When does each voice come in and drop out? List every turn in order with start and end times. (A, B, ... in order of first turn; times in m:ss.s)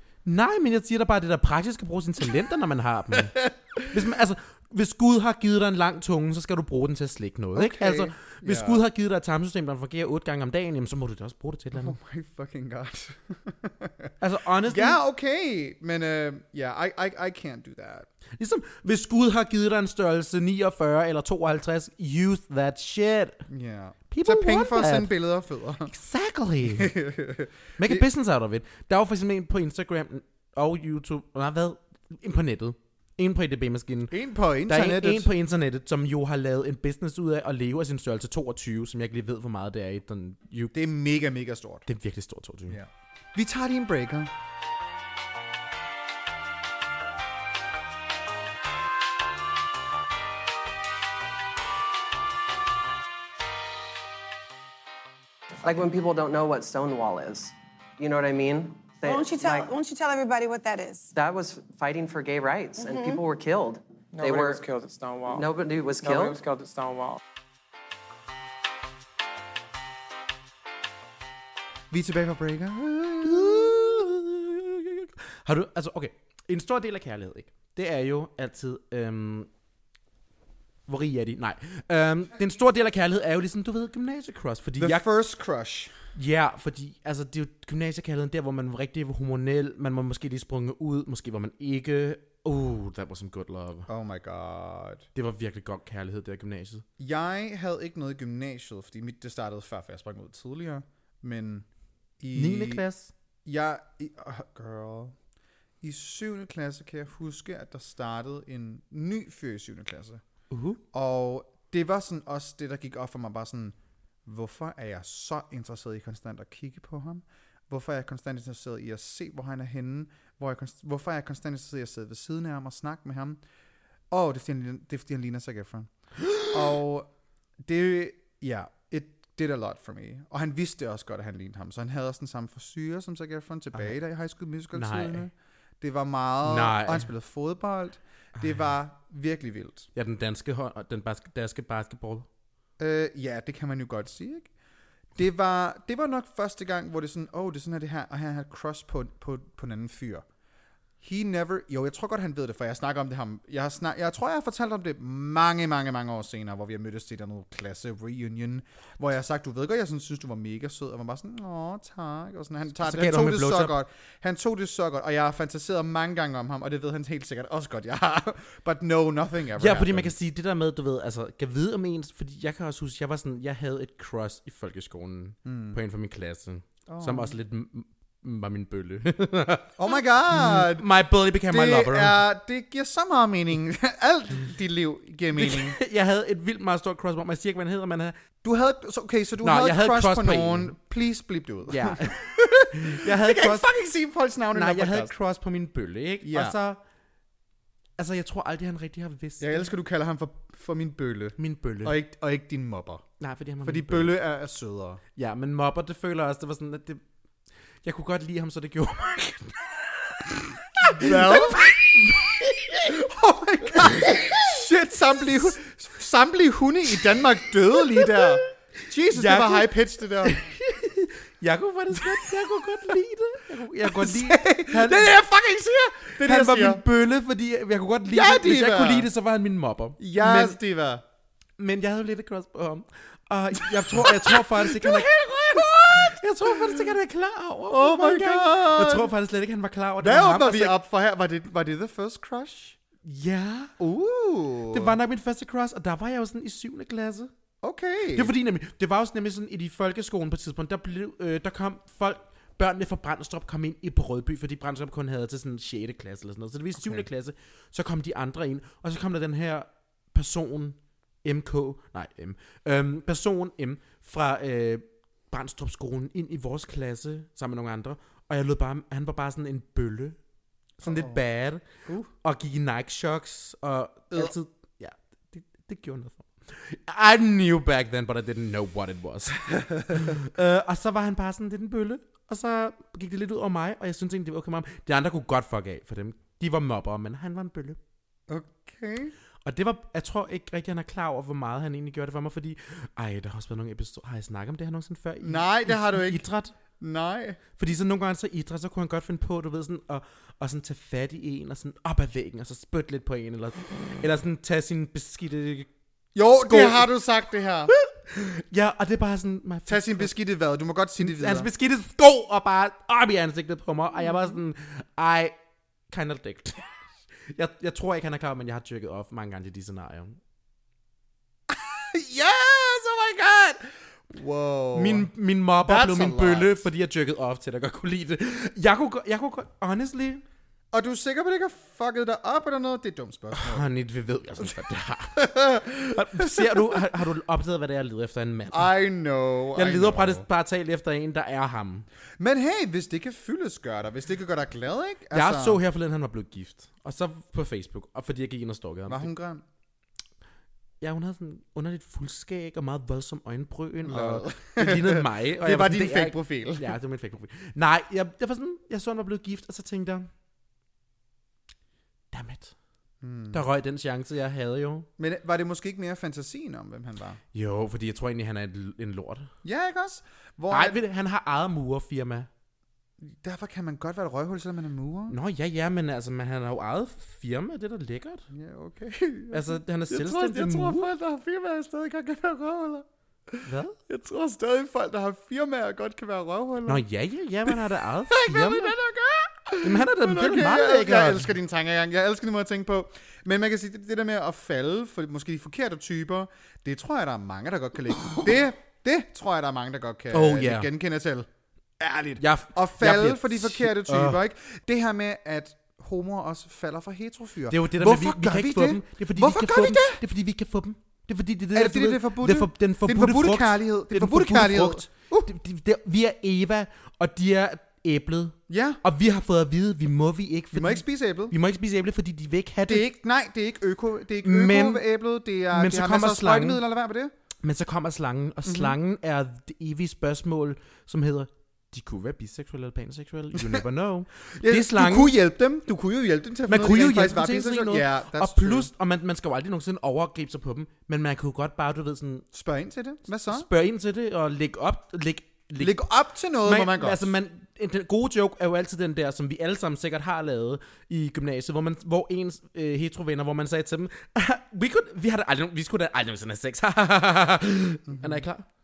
0:00.2-0:12.0 A
0:03.1-0:04.0 B
0:07.5-0:08.8 B
0:11.7-0:14.1 B
0:14.2-0:15.0 A
0:14.6-0:18.1 B
0:18.4-0:23.4 A
0:23.5-0:25.9 B
0:24.1-0:25.1 A
0:25.8-0:26.9 A
0:26.7-0:28.0 B
0:27.8-0:40.7 A
0:34.1-0:35.3 B
0:40.7-0:41.8 B
0:41.9-0:42.8 A
0:42.7-0:44.3 B
0:55.6-0:59.7 C
0:59.0-1:01.1 D
1:01.1-1:04.6 C
1:02.8-1:03.2 D
1:04.1-1:07.2 E
1:05.3-1:06.4 C
1:11.9-1:14.1 B
1:13.2-1:19.5 A
1:20.9-1:25.0 A
1:24.8-1:26.0 B
1:26.1-1:33.9 A
1:33.9-1:35.0 B
1:35.1-1:36.8 A
1:37.0-1:41.6 B
1:42.2-1:42.8 B
1:42.3-1:43.1 A
1:43.4-1:45.2 B
1:45.8-1:50.2 B
1:50.5-1:50.8 A
1:50.9-2:03.4 B
2:04.1-2:07.1 B
2:07.6-2:19.9 B
2:14.7-2:15.3 A
2:16.4-2:17.1 A
2:19.9-2:22.3 A
2:22.8-2:24.5 B
2:25.2-2:30.2 B
2:31.0-2:50.1 B
2:42.8-2:43.8 A
2:49.6-3:02.2 A
2:55.4-2:55.8 B
2:56.9-2:57.3 B
2:59.8-3:00.8 B
3:01.5-3:05.8 B
3:05.4-3:08.1 A
3:08.4-3:15.1 B
3:09.4-3:10.8 A
3:11.7-3:13.7 A
3:14.5-3:16.8 A
3:16.2-3:16.6 B
3:18.0-3:19.7 A
3:19.4-3:23.0 B
3:21.4-3:22.0 A
3:23.2-3:24.2 A
3:23.6-3:25.0 B
3:25.2-3:27.0 A
3:27.8-3:29.7 A
3:30.8-3:32.9 A
3:30.8-3:40.4 B
3:34.0-3:34.4 A
3:37.9-3:38.3 A
3:39.1-3:45.2 A
3:41.9-3:42.4 B
3:43.8-3:46.8 B
3:46.2-3:50.6 A
3:48.1-3:49.1 B
3:50.0-3:51.0 B
3:51.6-4:00.8 A
3:53.6-3:56.9 B
3:57.7-3:59.1 B
4:00.0-4:02.8 B
4:03.0-4:03.7 A
4:03.8-4:05.0 B
4:04.7-4:07.3 A
4:07.6-4:08.3 B
4:08.1-4:30.2 A
4:16.8-4:17.0 B
4:30.8-4:31.2 B
4:30.8-4:31.6 A
4:31.8-4:32.1 B
4:32.2-4:47.8 A
4:39.5-4:40.0 B
4:48.3-4:49.1 B
4:49.4-4:56.5 A
4:55.2-4:56.2 B
4:56.8-4:57.4 B
4:57.6-5:05.7 A
5:06.1-5:07.7 B
5:06.4-5:06.9 A
5:07.7-5:10.1 A
5:09.7-5:11.5 B
5:11.0-5:15.3 A
5:14.0-5:14.4 B
5:15.9-5:16.6 A
5:17.3-5:20.2 A
5:21.5-5:26.6 B
5:24.7-5:30.2 A
5:30.7-5:33.7 B
5:33.3-5:35.2 A
5:35.1-5:36.8 B
5:35.9-5:38.7 A
5:38.5-5:40.2 B
5:39.5-5:41.9 A
5:42.2-5:45.6 B
5:45.1-5:49.1 A
5:48.9-5:49.4 B
5:50.8-6:00.1 A
5:53.8-5:56.7 B
6:02.1-6:02.5 A
6:03.0-6:03.4 B
6:03.3-6:04.9 A
6:05.0-6:07.2 B
6:07.3-6:09.3 A
6:09.4-6:10.8 B
6:10.5-6:12.3 A
6:13.0-6:15.2 B
6:15.1-6:18.2 A
6:18.3-6:26.8 B
6:19.3-6:20.9 A
6:23.4-6:23.8 A
6:26.6-6:28.8 A
6:27.4-6:41.3 B
6:29.6-6:31.3 A
6:40.1-6:40.7 A
6:41.8-6:50.0 B
6:42.2-6:44.2 A
6:47.5-7:02.9 A
6:51.5-6:55.3 B
6:58.5-6:58.8 B
7:00.5-7:01.3 B
7:02.6-7:07.1 B
7:04.2-7:04.8 A
7:05.5-7:06.6 A
7:07.4-7:15.2 A
7:08.4-7:08.8 B
7:14.3-7:18.7 B
7:16.5-7:22.2 A
7:22.3-7:23.5 B
7:23.3-7:25.8 A
7:25.6-7:27.1 B
7:26.4-7:38.5 A
7:37.9-7:38.2 B